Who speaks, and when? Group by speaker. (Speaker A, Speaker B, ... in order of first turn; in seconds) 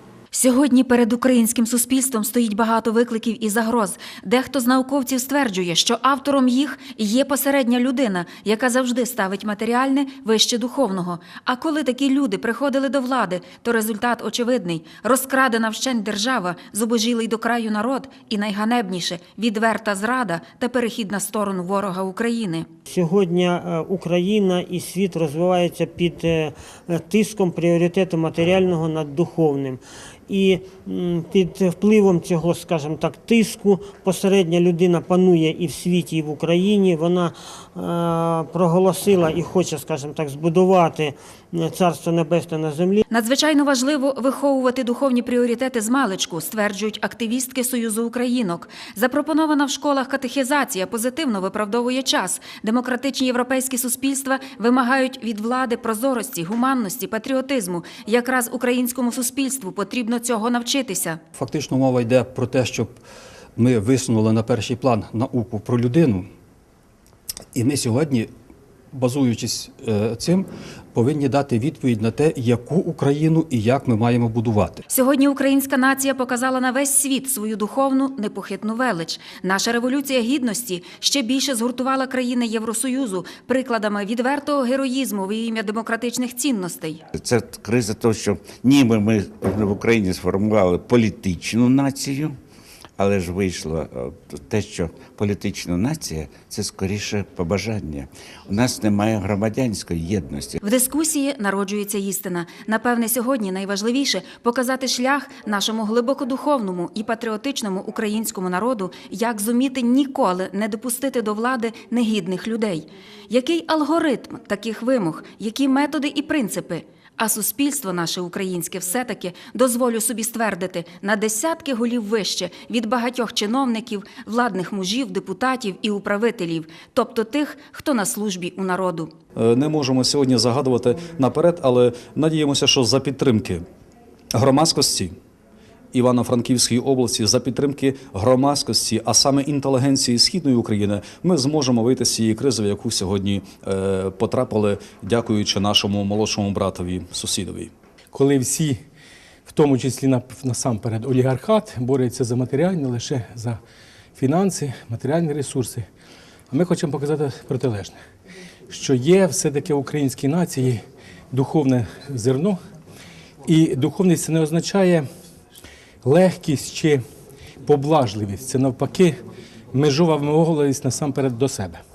Speaker A: 0.3-22.7, 43.1-61.2, 74.9-87.0, 100.6-129.1
Speaker B: 22.9-43.0
Speaker C: 61.3-63.0, 63.5-66.3, 67.5-68.3, 68.9-74.8
Speaker D: 87.1-92.3, 93.0-100.6
Speaker E: 129.3-133.6, 134.3-135.1, 135.9-147.7
Speaker F: 148.1-148.8, 149.5-153.6, 154.2-155.8, 156.5-158.0, 158.7-162.6, 163.4-165.0, 166.0-167.0, 167.6-169.2, 169.7-171.8